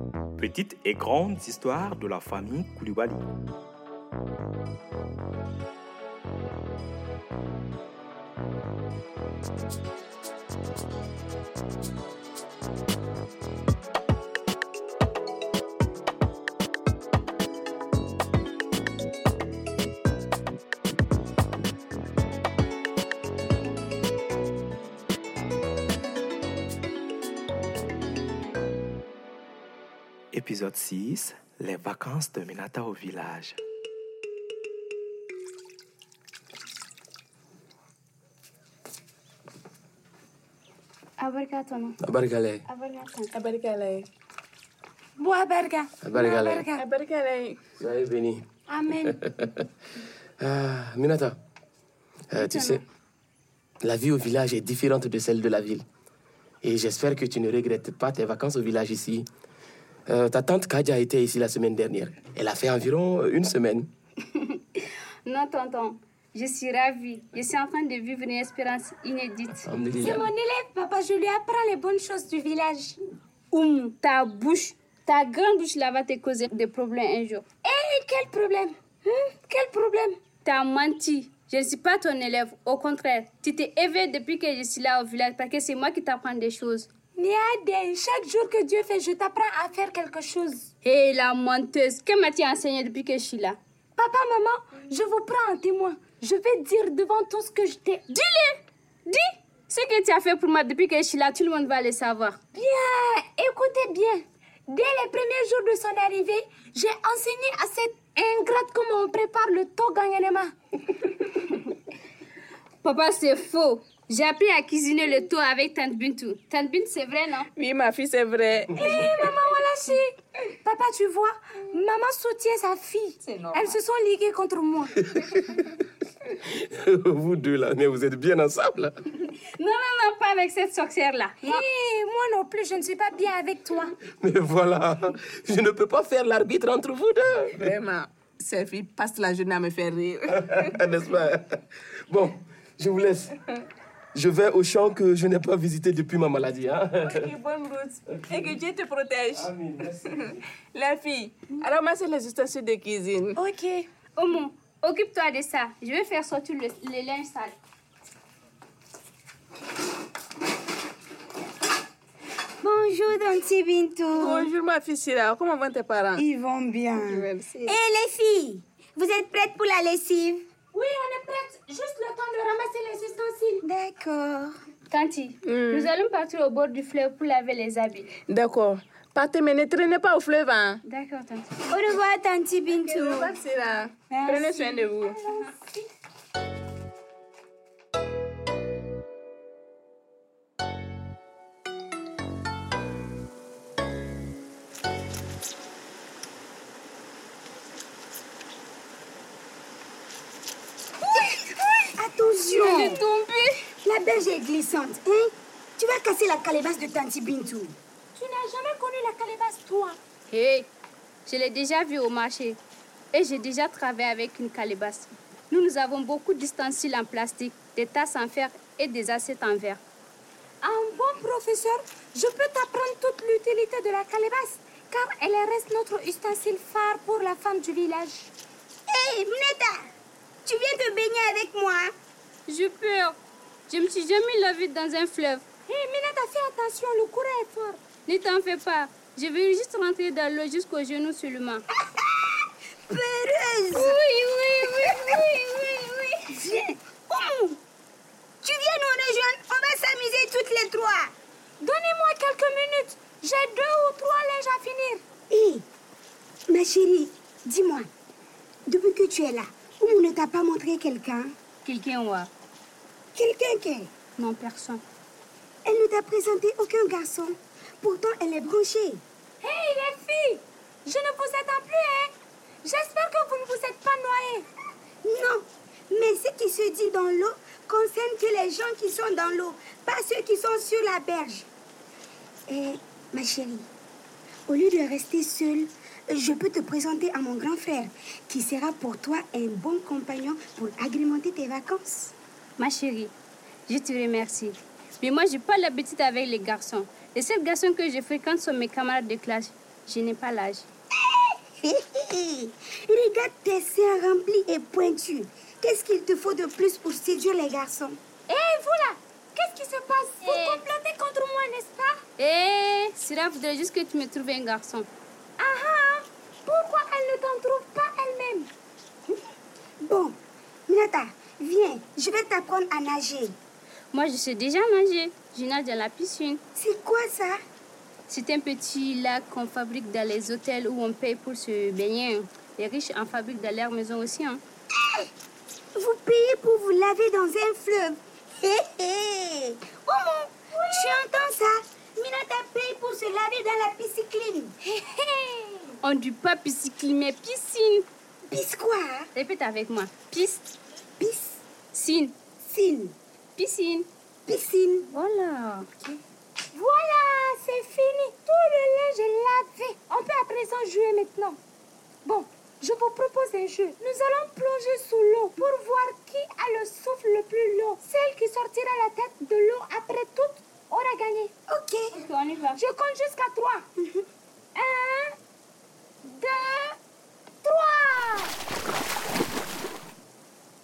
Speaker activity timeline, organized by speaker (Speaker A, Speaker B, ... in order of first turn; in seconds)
Speaker A: 0.4-3.2, 30.3-33.6
Speaker B: 41.2-42.0, 42.7-43.3, 52.4-52.8, 64.3-69.7, 73.5-77.5, 80.4-86.9, 90.8-93.6, 99.1-102.4, 112.8-117.5, 129.4-131.6, 154.2-157.6, 174.9-178.1, 180.8-181.5, 202.5-203.5, 210.3-210.7, 211.2-212.6, 213.1-219.8, 232.5-233.2, 233.7-235.4, 238.1-241.6, 243.7-246.2, 261.6-262.3, 264.2-264.8, 292.6-293.1, 293.7-300.7, 310.2-310.6, 312.2-314.9, 323.9-326.4, 328.1-334.4, 345.8-347.9, 349.1-350.5, 351.7-352.2, 353.4-353.9, 354.9-355.7, 371.9-372.6
Speaker C: 42.0-42.6, 46.0-46.7, 47.8-48.5, 50.4-51.4, 52.3-52.8, 53.8-55.8, 56.6-59.3, 60.1-63.9, 69.7-70.2, 125.1-125.8, 126.3-128.9, 134.1-137.7, 140.4-143.3, 144.1-147.3, 148.3-148.6, 149.3-150.2
Speaker D: 43.3-44.1, 46.7-47.6, 117.5-119.1, 123.2-123.7, 137.6-140.8, 147.0-153.4, 164.1-166.2, 167.0-167.8, 175.4-175.9, 178.2-180.8, 182.7-185.2
Speaker E: 45.2-46.8, 48.7-49.2, 70.0-73.0, 77.6-80.2, 87.2-90.7, 94.0-98.5, 102.5-110.5, 118.7-125.0, 131.4-133.9, 153.4-153.9, 170.7-173.6, 184.2-185.5, 208.1-210.0, 220.6-228.3, 235.7-237.8, 251.6-255.0, 269.4-272.1, 272.6-274.5, 308.3-312.0, 315.4-318.5, 340.6-340.9, 344.6-345.7, 356.5-361.4, 362.0-371.3, 372.6-373.7, 374.5-375.1, 376.0-376.8, 377.4-378.3
Speaker F: 162.6-164.5, 166.2-170.4, 173.6-174.5, 181.7-183.3, 201.9-203.0, 203.8-207.8, 228.9-229.9, 230.4-231.9, 241.9-244.0, 246.3-247.6, 248.4-251.1, 255.3-255.6, 256.5-257.9, 258.7-261.3, 263.1-263.9, 265.6-269.0, 275.0-281.5, 282.5-283.7, 284.5-292.1, 301.0-308.0, 319.8-323.4, 326.6-327.4, 334.8-335.1, 335.7-344.5, 348.3-349.1, 351.0-351.4, 352.4-352.9, 354.3-354.9, 371.5-371.9